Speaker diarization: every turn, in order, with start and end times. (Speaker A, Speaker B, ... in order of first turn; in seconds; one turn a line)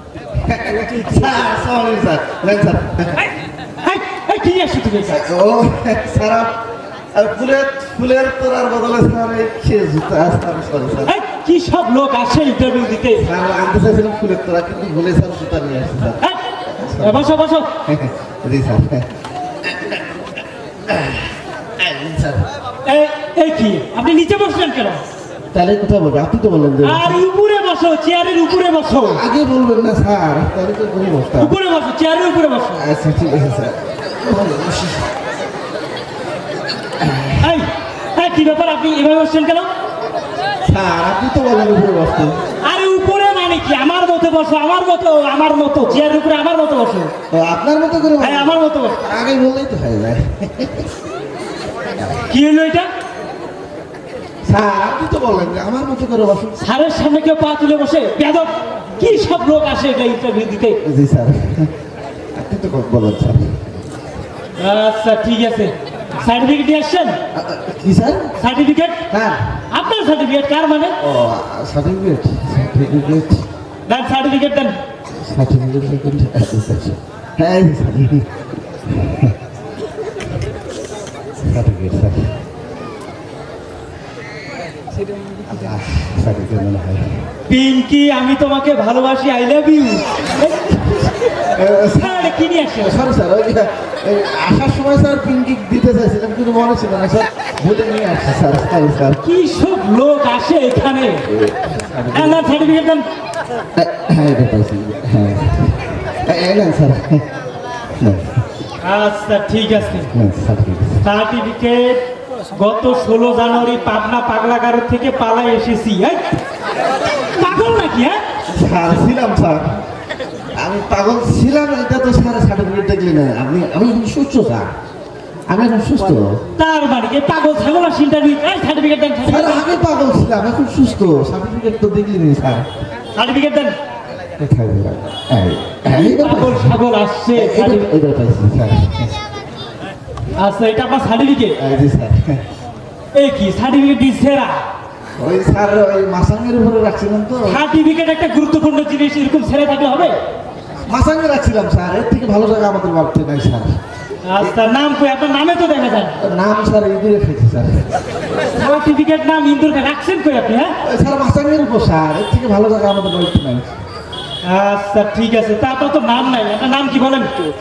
Speaker A: 0.5-3.2
Speaker B: 3.8-5.2
Speaker A: 5.0-6.5
Speaker A: 7.1-11.2
Speaker B: 11.1-13.3
Speaker A: 13.2-16.2
Speaker A: 16.8-17.3
Speaker B: 17.0-17.7
Speaker A: 17.9-19.1
Speaker A: 19.6-20.0
Speaker A: 20.9-21.3
Speaker A: 21.8-22.5
Speaker B: 22.9-25.0
Speaker A: 25.5-27.2
Speaker B: 26.8-29.2
Speaker A: 29.1-31.5
Speaker B: 31.4-32.8
Speaker A: 32.8-35.1
Speaker A: 37.0-37.5
Speaker B: 37.4-39.7
Speaker A: 40.7-42.4
Speaker B: 42.6-47.1
Speaker A: 47.3-50.9
Speaker B: 48.2-49.0
Speaker B: 52.3-52.9
Speaker A: 54.5-56.6
Speaker B: 56.6-60.8
Speaker A: 60.8-61.7
Speaker A: 62.4-63.7
Speaker B: 64.6-67.2
Speaker A: 67.3-68.4
Speaker B: 68.4-69.0
Speaker A: 69.1-69.6
Speaker B: 69.7-71.0
Speaker A: 71.0-73.5
Speaker B: 73.9-74.8
Speaker A: 75.1-78.3
Speaker A: 78.9-79.3
Speaker A: 81.5-82.3
Speaker A: 85.5-87.2
Speaker B: 87.5-91.1
Speaker A: 91.5-99.2
Speaker B: 91.9-93.1
Speaker B: 99.2-101.3
Speaker A: 101.3-102.7
Speaker B: 102.1-103.0
Speaker A: 103.8-107.2
Speaker A: 108.0-108.4
Speaker B: 108.8-110.1
Speaker A: 110.1-111.0
Speaker B: 111.0-112.0
Speaker B: 112.6-116.3
Speaker B: 117.4-118.2
Speaker A: 118.5-119.8
Speaker A: 120.6-124.7
Speaker A: 125.5-126.5
Speaker B: 126.6-129.7
Speaker A: 129.2-132.7
Speaker B: 133.2-133.8
Speaker A: 134.4-136.8
Speaker B: 135.9-137.9
Speaker A: 137.3-139.2
Speaker B: 140.4-141.6
Speaker A: 141.6-142.4
Speaker B: 143.2-144.6
Speaker A: 145.2-147.6
Speaker B: 147.4-150.2
Speaker A: 150.9-153.8
Speaker B: 154.2-156.2
Speaker A: 156.2-157.9
Speaker B: 158.5-160.8
Speaker A: 160.8-163.7
Speaker B: 164.4-167.3